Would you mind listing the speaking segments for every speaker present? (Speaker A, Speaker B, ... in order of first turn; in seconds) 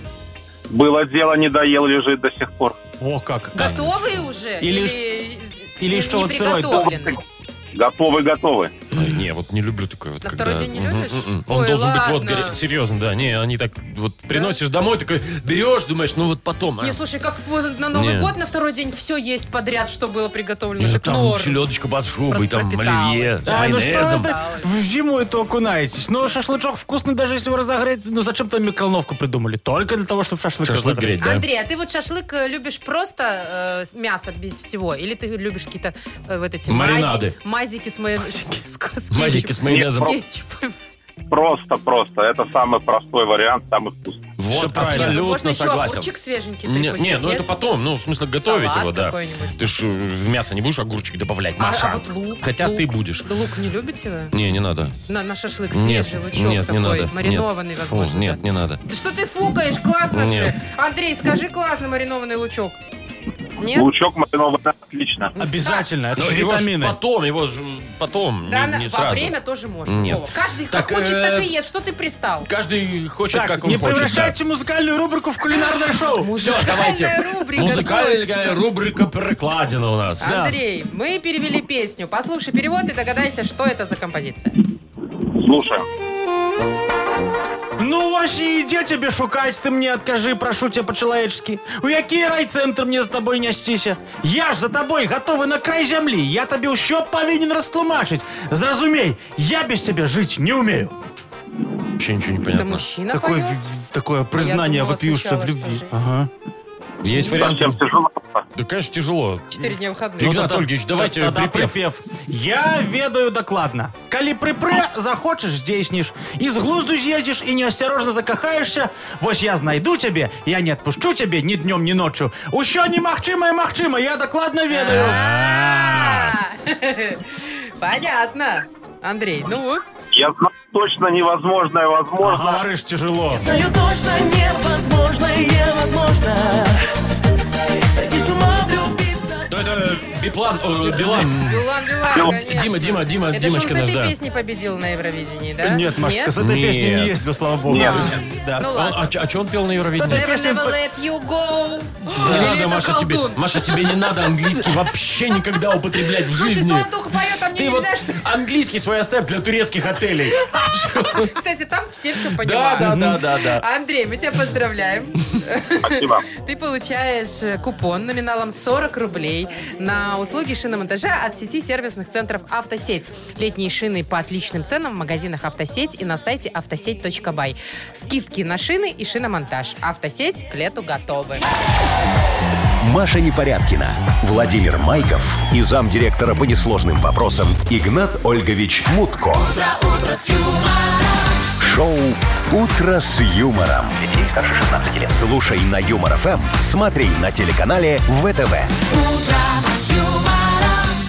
Speaker A: 0.7-2.8, 6.7-7.1, 7.7-8.8, 39.6-40.1, 41.3-44.3, 63.7-65.3, 85.3-85.8, 107.2-108.4, 130.1-132.6, 142.1-142.4, 147.7-148.1, 165.8-166.2
Speaker B: 3.0-3.8, 4.6-5.0, 5.8-6.9, 23.4-31.2, 44.5-45.2, 65.4-67.0, 73.3-76.4, 80.2-80.6, 87.8-100.9, 103.1-106.3, 110.2-125.3, 132.2-133.4, 145.6-148.7, 149.9-150.8, 162.8-163.1
Speaker C: 3.5-7.2, 10.2-12.6, 16.8-21.6, 22.3-24.6, 31.2-40.7, 44.8-47.5, 48.4-49.7, 51.6-54.3, 55.1-62.8, 63.6-63.9, 65.3-65.8, 68.5-72.5, 76.2-78.6, 80.2-84.5, 102.5-103.6, 104.3-105.9, 107.1-107.5, 109.5-110.5, 124.7-129.8, 140.8-146.3, 147.7-149.0, 150.0-153.4, 156.3-158.2, 160.8-181.4
Speaker D: 8.9-17.0, 17.9-18.3, 20.8-24.3, 30.6-31.4, 36.7-37.3, 39.1-40.2, 44.4-46.1, 46.6-53.3, 54.3-55.0, 55.7-58.8, 60.1-60.5, 66.2-71.5, 72.5-74.3, 76.4-80.3, 102.0-102.8, 107.0-107.8, 108.5-109.7, 110.2-111.7, 124.9-126.2, 139.5-144.1, 146.4-147.2, 147.8-148.2, 148.7-150.3, 152.2-161.3, 162.4-163.6
Speaker E: 133.3-136.8, 137.9-139.4, 189.4-191.4, 198.9-201.0
Speaker F: 182.8-189.5, 191.6-198.7